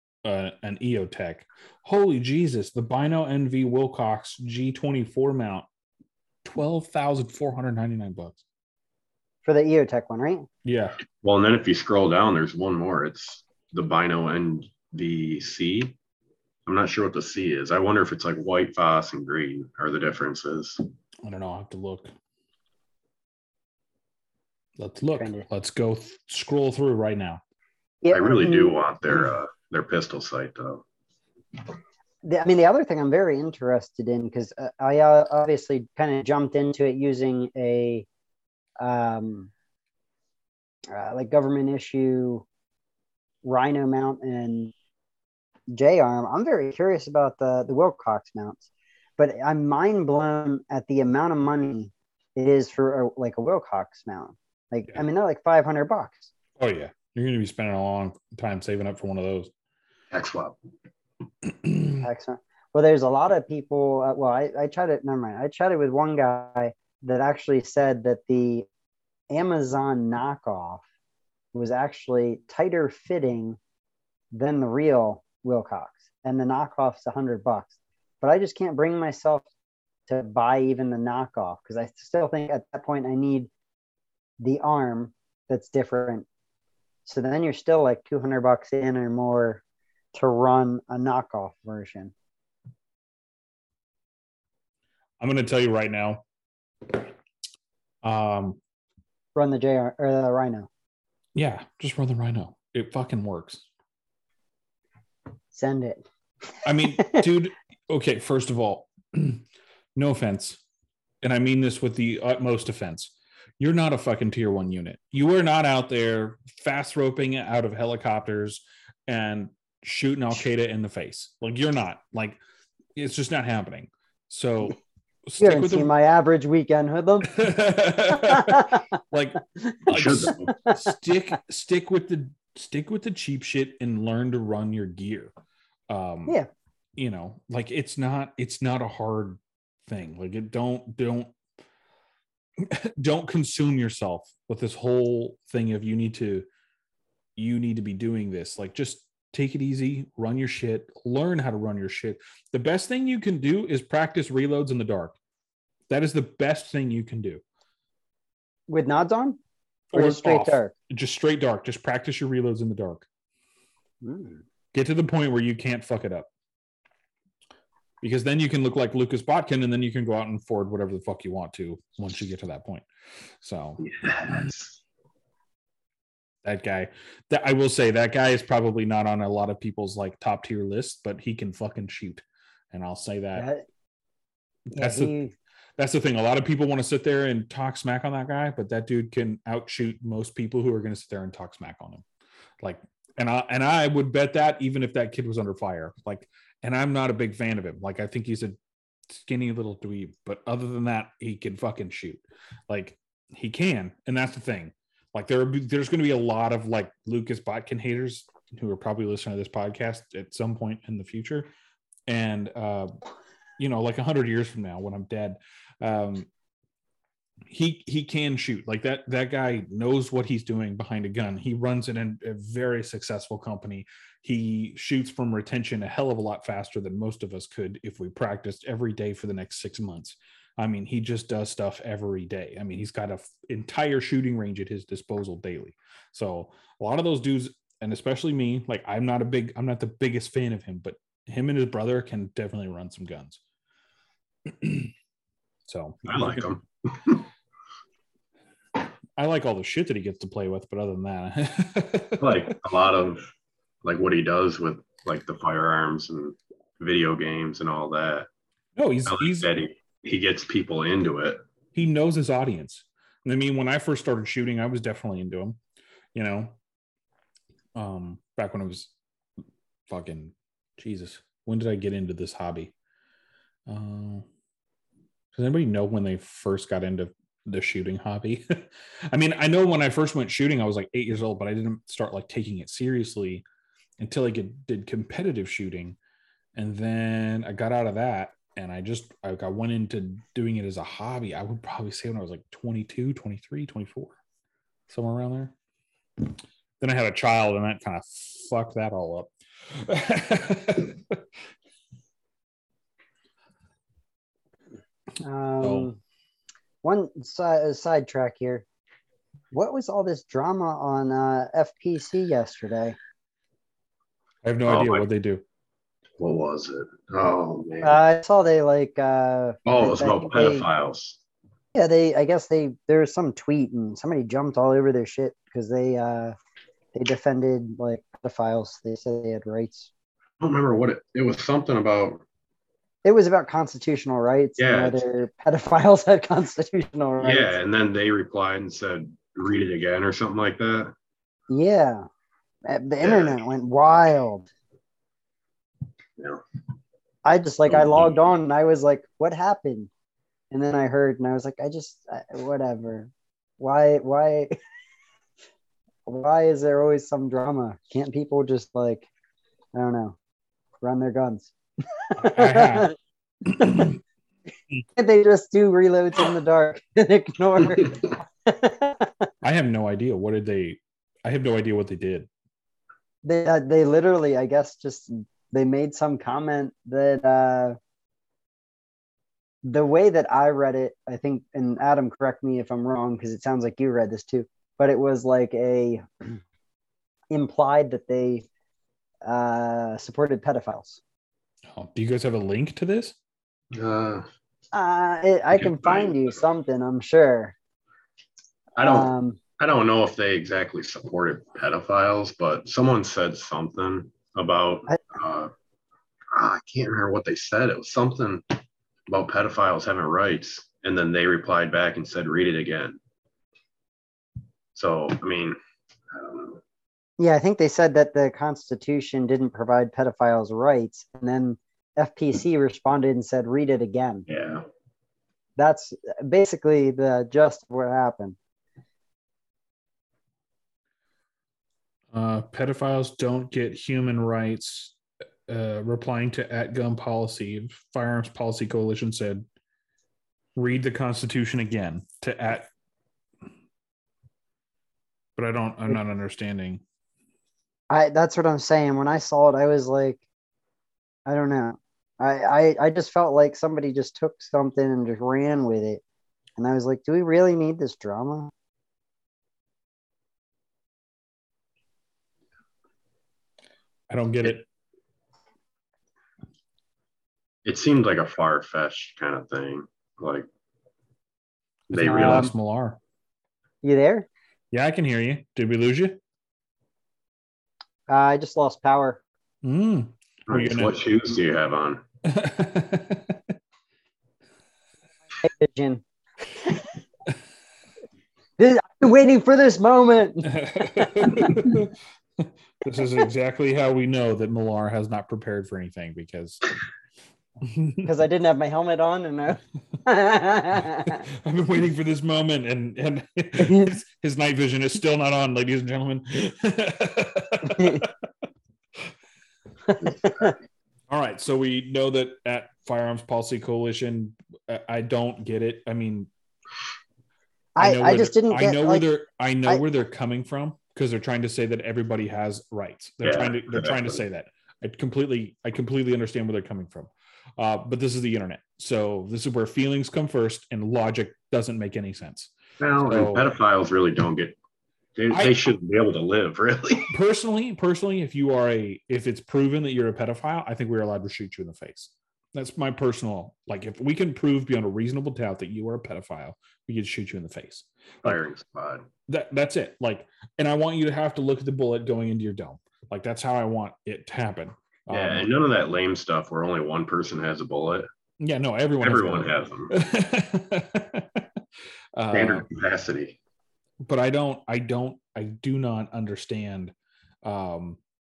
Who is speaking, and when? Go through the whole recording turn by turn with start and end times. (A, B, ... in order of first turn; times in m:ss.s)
0:00.2-0:05.6 A
0:06.4-0:08.4 A
0:09.4-0:10.5 B
0:10.6-0:11.0 A
0:11.2-0:15.9 C
0:16.6-0:20.8 C
0:21.2-0:22.1 A
0:24.8-0:27.4 A
0:25.2-0:25.4 B
0:28.0-0:28.7 B
0:28.1-0:30.8 C
0:32.2-0:38.1 B
0:38.8-0:39.5 B
0:40.9-0:42.4 B
0:43.4-0:44.7 B
0:45.7-0:48.6 B
0:49.2-0:56.3 B
0:56.6-0:59.5 A
1:00.1-1:00.6 C
1:01.6-1:02.0 A
1:02.0-1:08.7 B
1:09.3-1:10.8 B
1:11.5-1:13.6 B
1:14.3-1:19.5 B
1:20.1-1:23.5 B
1:24.4-1:26.3 B
1:27.0-1:29.6 B
1:30.1-1:32.1 B
1:35.2-1:36.2 A
1:38.0-1:38.6 A
1:39.3-1:40.7 B
1:41.3-1:43.6 A
1:45.5-1:46.0 B
1:46.6-1:49.4 A
1:49.9-1:50.6 A
1:51.2-2:02.4 A
2:03.0-2:05.9 A
2:05.4-2:07.3 B
2:07.2-2:15.3 A
2:08.1-2:08.8 B
2:09.9-2:10.5 C
2:10.5-2:10.9 B
2:15.9-2:16.4 A
2:17.0-2:21.3 A
2:22.6-2:26.4 A
2:27.4-2:35.2 A
2:35.9-2:37.4 A
2:38.7-2:39.4 B
2:39.9-2:43.0 A
2:39.9-2:40.7 B
2:44.0-2:44.4 B
2:44.7-2:46.3 A
2:48.0-2:52.8 A
2:53.4-2:54.4 A
2:53.8-2:54.8 C
2:56.4-3:03.5 A
3:03.3-3:03.6 B
3:04.7-3:05.1 A
3:04.7-3:05.3 B
3:05.8-3:12.0 A
3:12.6-3:18.6 A
3:19.1-3:31.5 A
3:32.1-3:32.9 A
3:33.6-3:36.3 A
3:37.5-4:03.4 A
4:04.6-4:04.9 A
4:05.7-4:06.6 A
4:06.0-4:07.2 C
4:09.2-4:12.5 A
4:12.2-4:13.3 C
4:13.8-4:18.3 C
4:18.8-4:19.5 A
4:19.0-4:21.4 C
4:21.7-4:25.6 A
4:26.1-4:26.6 A
4:27.8-4:28.9 A
4:29.9-4:32.7 A
4:33.7-4:34.3 A
4:35.3-4:43.4 A
4:44.0-4:46.0 A
4:46.5-4:54.1 A
4:54.9-4:55.5 A
4:56.8-5:01.2 A
5:05.2-5:06.0 B
5:05.6-5:05.9 A
5:06.8-5:08.6 B
5:09.5-5:13.0 B
5:14.4-5:15.4 A
5:14.7-5:15.0 C
5:16.2-5:18.0 C
5:17.8-5:20.6 B
5:19.6-5:21.2 C
5:21.7-5:26.3 B
5:26.9-5:29.9 B
5:30.4-5:32.2 C
5:33.0-5:37.5 B
5:34.6-5:35.0 C
5:37.2-5:40.9 C
5:41.5-5:42.0 B
5:42.6-5:44.5 B
5:43.0-5:43.4 C
5:47.2-5:49.9 B
5:47.7-5:48.1 C
5:50.5-5:54.5 B
5:56.0-5:59.1 B
5:59.7-6:00.2 B
6:00.8-6:02.9 B
6:02.2-6:02.9 A
6:03.5-6:04.0 A
6:05.0-6:09.3 B
6:09.4-6:12.3 A
6:13.2-6:17.8 B
6:19.6-6:26.4 B
6:27.3-6:28.5 B
6:29.2-6:31.0 B
6:31.7-6:33.2 A
6:33.7-6:34.2 C
6:34.7-6:37.5 B
6:35.5-6:36.3 C
6:38.8-6:45.5 C
6:38.8-6:39.4 B
6:46.3-6:48.5 C
6:49.1-6:53.0 C
6:54.7-6:55.6 C
6:56.1-6:56.6 C
6:57.2-7:04.2 B
7:04.3-7:04.6 C
7:05.6-7:08.4 B
7:12.1-7:19.4 A
7:20.6-7:22.7 A
7:25.4-7:26.8 A
7:27.9-7:30.2 B
7:31.2-7:36.0 B
7:36.6-7:38.5 B
7:44.1-7:44.6 A
7:47.6-7:50.4 C
7:51.9-7:52.5 C
7:51.9-7:53.0 A
7:52.1-7:52.5 B
7:53.8-7:54.3 B
7:54.7-7:56.2 A
7:58.1-7:59.2 B
7:59.6-8:00.9 A
8:00.5-8:02.0 C
8:02.3-8:03.4 A
8:05.4-8:06.0 B
8:08.6-8:11.1 B
8:10.4-8:16.7 A
8:17.6-8:18.1 A
8:18.0-8:21.2 B
8:21.0-8:28.1 A
8:23.6-8:24.0 B
8:27.6-8:28.0 B
8:29.9-8:30.5 B
8:30.2-8:30.5 C
8:31.1-8:36.3 A
8:37.8-8:39.0 B
8:37.8-8:53.5 A
8:43.2-8:44.2 C
8:52.8-8:54.6 C
8:55.2-8:57.1 C
8:55.3-8:55.7 A
8:57.1-9:08.4 A
9:08.2-9:09.0 C
9:09.3-9:15.5 A
9:15.1-9:18.1 C
9:18.4-9:21.5 A
9:19.0-9:19.9 C
9:22.2-9:22.6 A
9:22.3-9:23.4 C
9:24.0-9:28.0 A